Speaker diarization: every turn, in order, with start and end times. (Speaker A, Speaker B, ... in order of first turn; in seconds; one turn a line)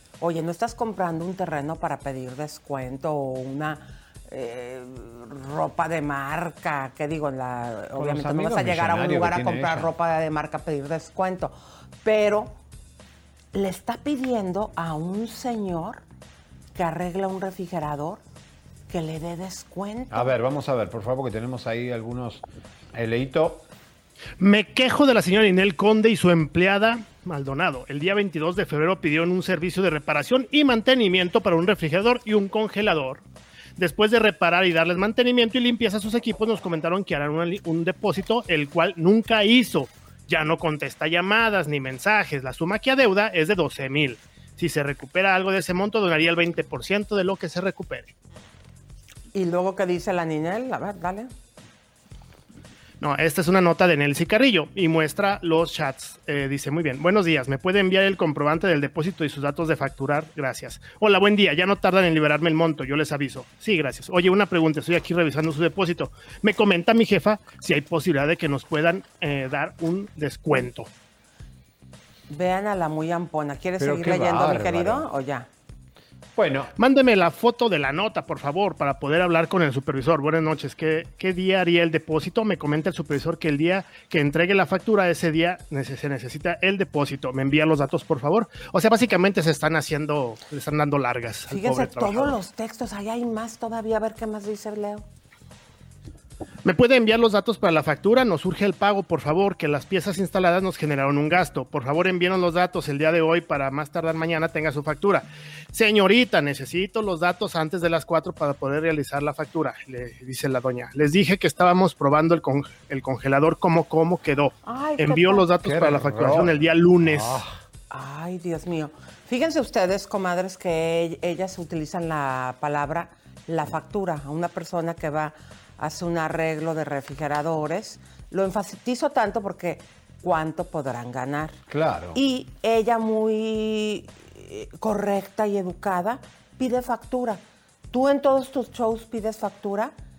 Speaker A: 0.2-12.6
Speaker B: 8.0-9.9
Speaker A: 13.5-16.0
Speaker A: 16.8-18.2
Speaker A: 18.9-20.4
Speaker B: 20.1-23.7
Speaker C: 24.4-33.2
Speaker C: 33.8-48.1
Speaker A: 49.3-51.3
Speaker C: 53.0-70.9
Speaker A: 72.3-75.5
Speaker B: 73.8-75.1
Speaker B: 76.4-76.7
Speaker C: 76.8-92.4
Speaker A: 91.5-95.0
Speaker C: 96.7-117.4
Speaker A: 114.7-115.5
Speaker B: 115.6-117.6
Speaker A: 117.9-131.6
Speaker B: 131.7-132.2
Speaker A: 132.2-137.4
Speaker A: 137.9-139.9